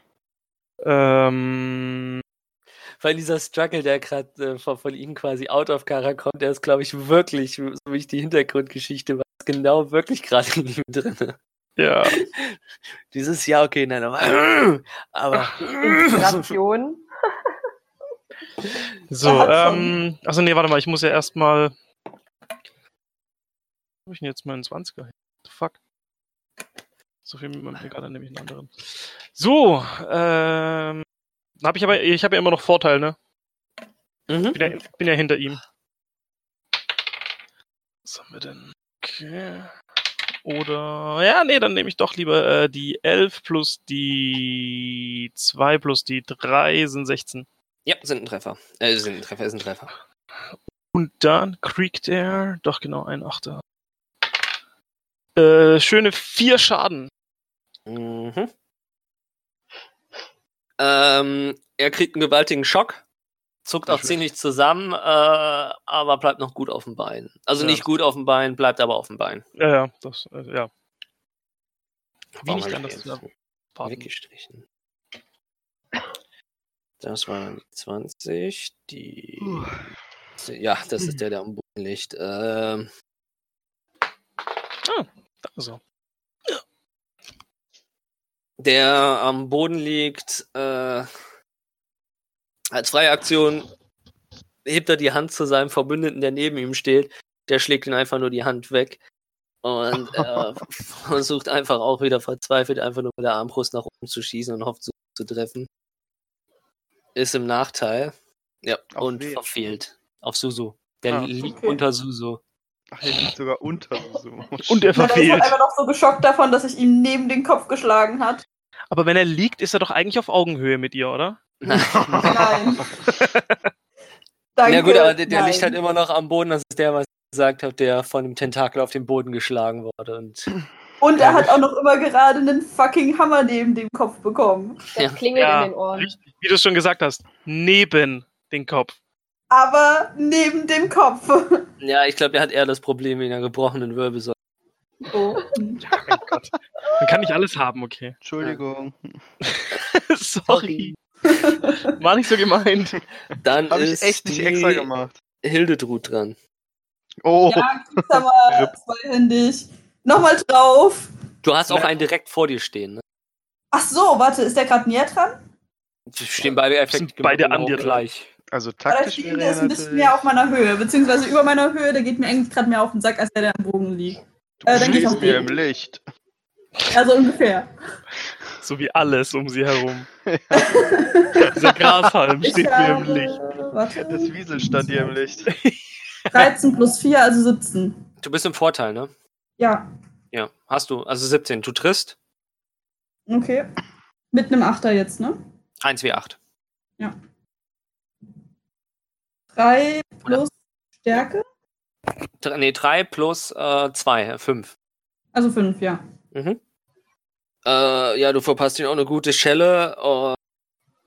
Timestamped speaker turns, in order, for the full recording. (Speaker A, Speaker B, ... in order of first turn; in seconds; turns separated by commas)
Speaker A: 0.8-2.2, Speaker B: 3.0-11.4, Speaker A: 11.8-12.2, Speaker B: 13.1-16.5, Speaker C: 15.8-17.1, Speaker A: 19.1-21.7, Speaker D: 19.2-19.9, Speaker A: 24.1-25.8, Speaker A: 27.2-31.1, Speaker A: 31.6-33.2, Speaker B: 34.3-34.8, Speaker A: 34.5-35.6, Speaker A: 38.1-39.7, Speaker A: 40.5-47.5, Speaker B: 47.9-49.9, Speaker A: 50.9-53.6, Speaker A: 55.4-57.1, Speaker B: 57.9-58.5, Speaker B: 60.8-63.0, Speaker B: 63.6-69.5, Speaker A: 63.9-64.2, Speaker A: 67.6-67.8, Speaker A: 69.6-70.7, Speaker B: 72.4-73.2, Speaker A: 72.5-73.2, Speaker A: 73.8-74.1, Speaker B: 73.8-74.6, Speaker B: 77.0-79.7, Speaker E: 79.4-79.7, Speaker B: 80.4-82.9, Speaker A: 84.8-85.8, Speaker B: 88.6-91.1, Speaker B: 92.7-93.7, Speaker B: 94.7-99.0, Speaker B: 99.6-105.7, Speaker B: 107.2-112.4, Speaker E: 108.9-109.5, Speaker D: 111.4-111.8, Speaker E: 112.9-115.0, Speaker A: 114.7-115.6, Speaker D: 115.0-118.4, Speaker A: 118.9-121.4, Speaker B: 121.6-122.3, Speaker E: 122.0-122.6, Speaker D: 122.2-122.9, Speaker A: 123.0-123.6, Speaker D: 124.6-125.8, Speaker B: 124.7-130.5, Speaker D: 131.0-134.8, Speaker A: 131.2-131.5, Speaker C: 134.9-136.1, Speaker B: 135.0-135.2, Speaker A: 135.4-138.9, Speaker D: 139.5-141.6, Speaker B: 141.8-144.3, Speaker D: 145.1-145.8, Speaker A: 145.8-148.2, Speaker E: 148.2-149.2, Speaker A: 149.5-150.9, Speaker B: 150.5-150.9, Speaker D: 151.3-151.9, Speaker A: 151.8-153.0, Speaker B: 153.4-154.9, Speaker E: 153.7-155.2, Speaker B: 155.4-156.4, Speaker E: 157.2-158.7, Speaker D: 157.5-161.1, Speaker B: 161.4-163.0, Speaker D: 163.7-165.4, Speaker B: 166.1-168.3, Speaker A: 166.9-168.1, Speaker E: 168.5-170.3, Speaker D: 168.9-175.5, Speaker E: 174.6-176.0, Speaker B: 174.7-175.3, Speaker D: 176.9-177.7, Speaker A: 178.6-180.1, Speaker E: 180.2-180.9, Speaker D: 180.5-181.5, Speaker E: 181.5-181.9, Speaker A: 181.5-183.4, Speaker D: 182.4-185.1, Speaker E: 184.0-185.5, Speaker A: 185.5-186.5, Speaker D: 186.3-188.0, Speaker B: 188.2-189.1, Speaker D: 189.6-189.9, Speaker B: 190.3-192.2, Speaker D: 193.3-193.7, Speaker D: 194.3-195.4, Speaker B: 195.8-196.4, Speaker D: 199.6-200.5, Speaker D: 201.0-201.4, Speaker B: 202.4-204.7, Speaker D: 205.3-206.0, Speaker B: 206.3-206.6, Speaker B: 207.7-210.4